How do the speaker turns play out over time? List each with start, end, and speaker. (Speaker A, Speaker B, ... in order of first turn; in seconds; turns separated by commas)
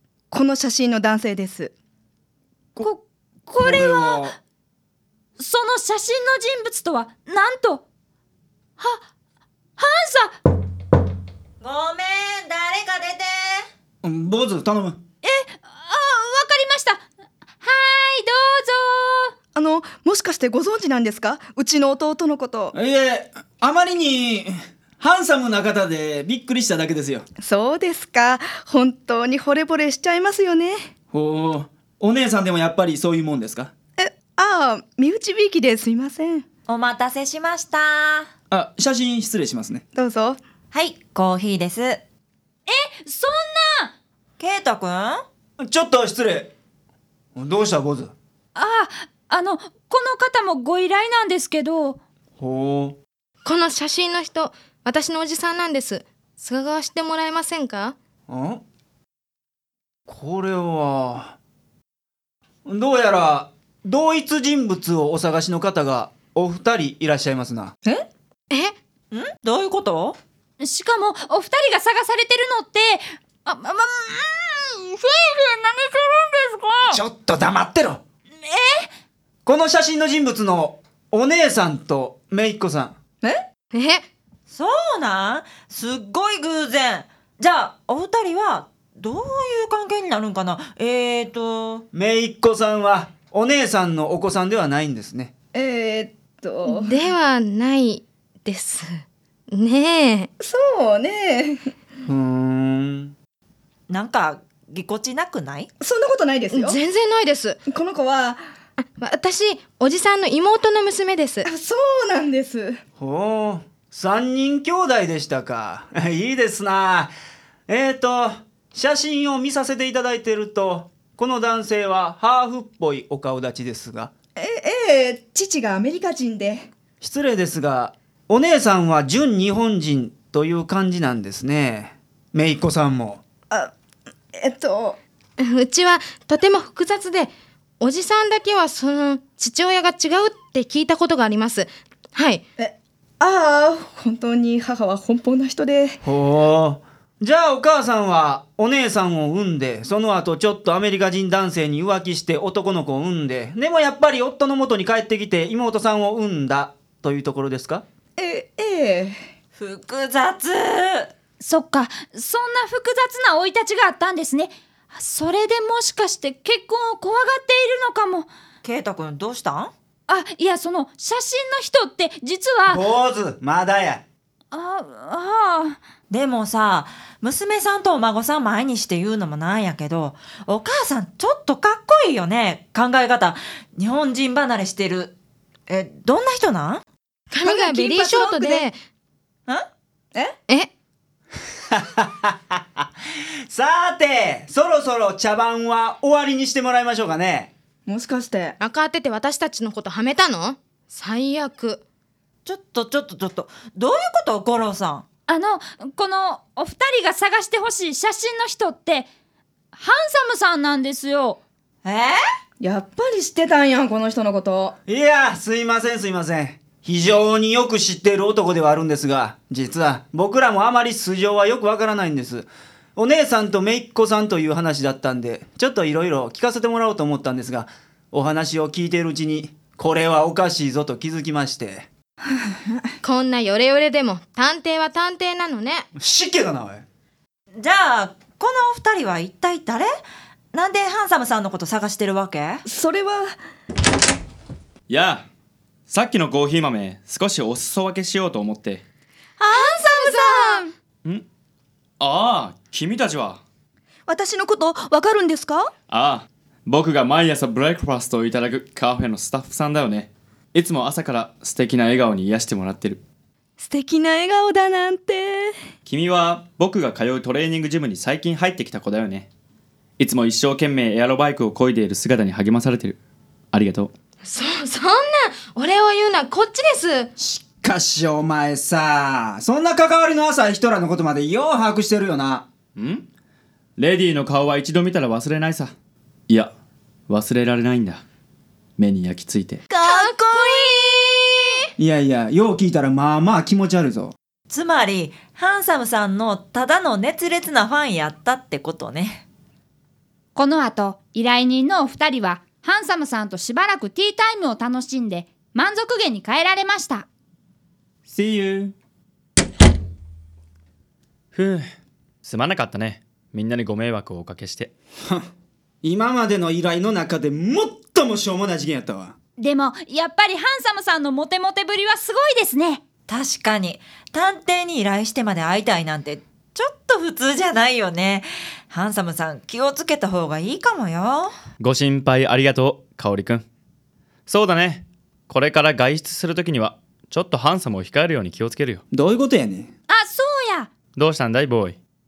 Speaker A: 0.3-1.7, Speaker B: 2.8-4.3, Speaker C: 3.6-4.3, Speaker B: 5.4-7.8, Speaker B: 9.8-10.3, Speaker D: 11.6-13.7, Speaker C: 14.0-15.0, Speaker B: 15.2-17.0, Speaker B: 17.6-19.3, Speaker A: 19.5-22.7, Speaker C: 22.7-27.2, Speaker A: 27.4-30.8, Speaker C: 31.1-33.7, Speaker A: 34.0-36.5, Speaker D: 36.7-38.3, Speaker C: 38.5-39.8, Speaker A: 39.9-40.4, Speaker D: 40.7-42.0, Speaker B: 42.7-43.9, Speaker D: 44.4-45.2, Speaker C: 45.6-46.5, Speaker C: 47.3-48.1, Speaker B: 48.5-52.0, Speaker C: 52.4-53.0, Speaker E: 53.4-58.0, Speaker C: 58.3-58.6, Speaker C: 60.1-61.4, Speaker C: 62.6-67.7, Speaker E: 68.5-68.7, Speaker D: 69.1-70.2, Speaker B: 70.6-77.0, Speaker C: 76.9-78.0, Speaker B: 78.4-78.9, Speaker C: 79.4-83.0, Speaker E: 83.7-84.0, Speaker D: 84.5-91.8, Speaker C: 91.9-95.3, Speaker A: 95.5-97.0, Speaker E: 96.7-99.0, Speaker E: 99.5-100.3, Speaker A: 100.4-101.6, Speaker C: 102.1-103.1, Speaker D: 103.9-105.7, Speaker A: 105.8-106.8, Speaker E: 106.5-107.6, Speaker A: 107.6-108.4, Speaker E: 108.8-111.4, Speaker A: 111.4-112.8, Speaker C: 113.0-117.1, Speaker C: 117.7-124.1, Speaker A: 124.4-126.7, Speaker C: 127.0-133.2, Speaker A: 134.3-135.0, Speaker E: 135.4-142.4, Speaker A: 142.6-146.0, Speaker C: 146.0-157.8, Speaker A: 158.2-159.2, Speaker D: 159.6-161.1, Speaker B: 161.4-168.3, Speaker D: 168.6-169.7, Speaker B: 170.1-172.8, Speaker C: 172.7-174.0, Speaker B: 174.5-175.8, Speaker D: 176.1-185.1, Speaker D: 185.7-186.8, Speaker E: 187.3-188.8, Speaker A: 187.4-188.7, Speaker C: 191.7-192.8, Speaker C: 193.5-197.5, Speaker A: 197.9-198.6, Speaker E: 198.6-201.8, Speaker D: 202.4-205.0, Speaker B: 205.3-209.1, Speaker B: 209.7-211.4, Speaker D: 211.8-212.2, Speaker A: 212.6-214.8, Speaker C: 214.9-231.9, Speaker E: 233.0-235.8, Speaker C: 235.9-236.8, Speaker D: 237.6-239.9, Speaker D: 240.5-242.6, Speaker A: 242.6-243.3, Speaker F: 244.9-245.2, Speaker F: 245.9-248.8, Speaker E: 249.4-250.6, Speaker A: 249.4-250.7, Speaker F: 252.0-253.4, Speaker A: 254.1-255.7, Speaker F: 255.9-263.0, Speaker A: 263.6-265.5, Speaker F: 265.8-269.3, Speaker F: 270.0-273.0, Speaker F: 273.5-273.9, Speaker E: 274.2-277.1, Speaker C: 277.1-282.4, Speaker F: 282.8-283.1, Speaker F: 283.8-285.7, Speaker F: 287.1-288.0, Speaker F: 288.8-289.6, Speaker E: 289.8-290.9, Speaker A: 289.8-290.6, Speaker C: 291.8-294.1, Speaker D: 294.5-299.2, Speaker B: 300.3-307.1, Speaker C: 308.1-308.7, Speaker F: 311.3-311.7, Speaker F: 312.2-314.7, Speaker C: 315.8-319.1, Speaker B: 319.4-322.8, Speaker D: 323.1-331.3, Speaker F: 331.6-333.4, Speaker F: 334.3-338.8, Speaker C: 338.9-339.7, Speaker B: 339.9-340.7, Speaker F: 340.9-341.8